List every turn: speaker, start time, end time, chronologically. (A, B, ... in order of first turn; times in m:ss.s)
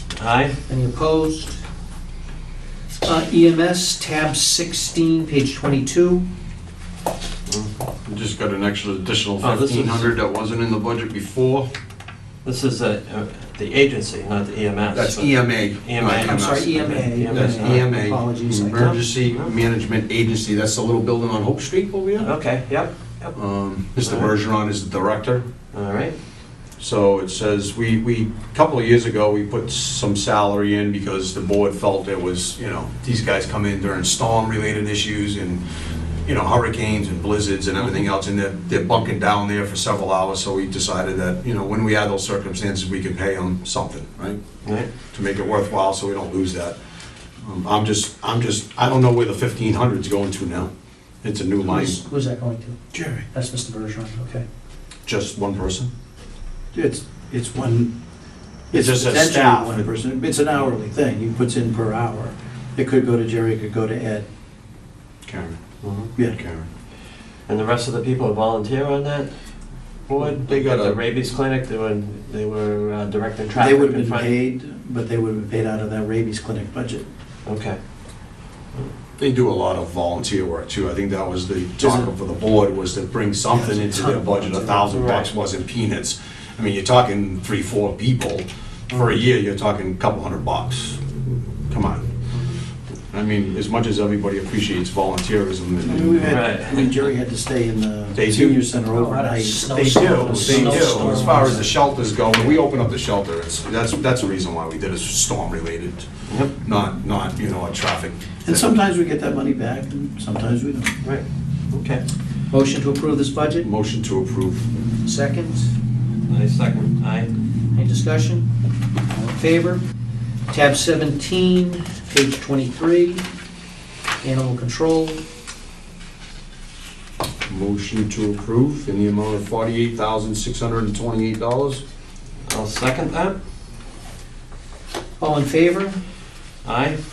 0:00.2-0:00.6 A
0:00.7-0:01.6 B
0:03.0-0:06.2 B
0:08.0-0:11.7 C
0:09.4-0:10.1 A
0:12.4-0:17.9 A
0:14.9-0:22.3 C
0:16.0-0:18.9 B
0:18.7-0:19.5 A
0:22.2-0:23.4 A
0:23.3-0:25.4 C
0:24.0-0:24.3 A
0:25.7-0:26.2 A
0:26.8-0:35.6 C
0:36.2-0:44.4 C
0:44.6-0:44.9 A
0:45.0-0:46.8 C
0:47.4-0:50.7 C
0:51.2-0:52.0 C
0:51.6-0:52.8 B
0:52.9-0:53.2 D
0:53.3-0:54.4 B
0:55.0-0:55.9 C
0:56.7-0:57.9 D
0:58.7-1:04.2 D
0:58.7-0:59.9 C
1:05.2-1:06.7 C
1:05.8-1:06.1 A
1:07.5-1:14.3 A
1:10.2-1:11.0 C
1:13.5-1:17.0 D
1:17.4-1:17.8 A
1:19.2-1:32.1 C
1:21.8-1:22.1 D
1:23.5-1:25.1 D
1:33.1-1:36.4 C
1:35.8-1:41.6 D
1:36.2-1:36.8 A
1:38.1-1:38.6 C
1:38.9-1:41.6 B
1:39.9-1:46.1 C
1:46.3-1:46.5 A
1:46.6-1:48.6 C
1:48.4-1:50.9 D
1:51.0-1:52.0 A
1:52.5-1:53.7 B
1:53.6-1:54.7 C
1:55.0-1:55.7 B
1:56.3-1:57.3 A
1:57.7-1:58.5 B
1:59.1-1:59.8 B
2:00.5-2:03.2 B
2:04.2-2:05.2 B
2:07.5-2:11.8 C
2:12.4-2:13.4 A
2:15.2-2:16.0 B
2:16.6-2:17.0 A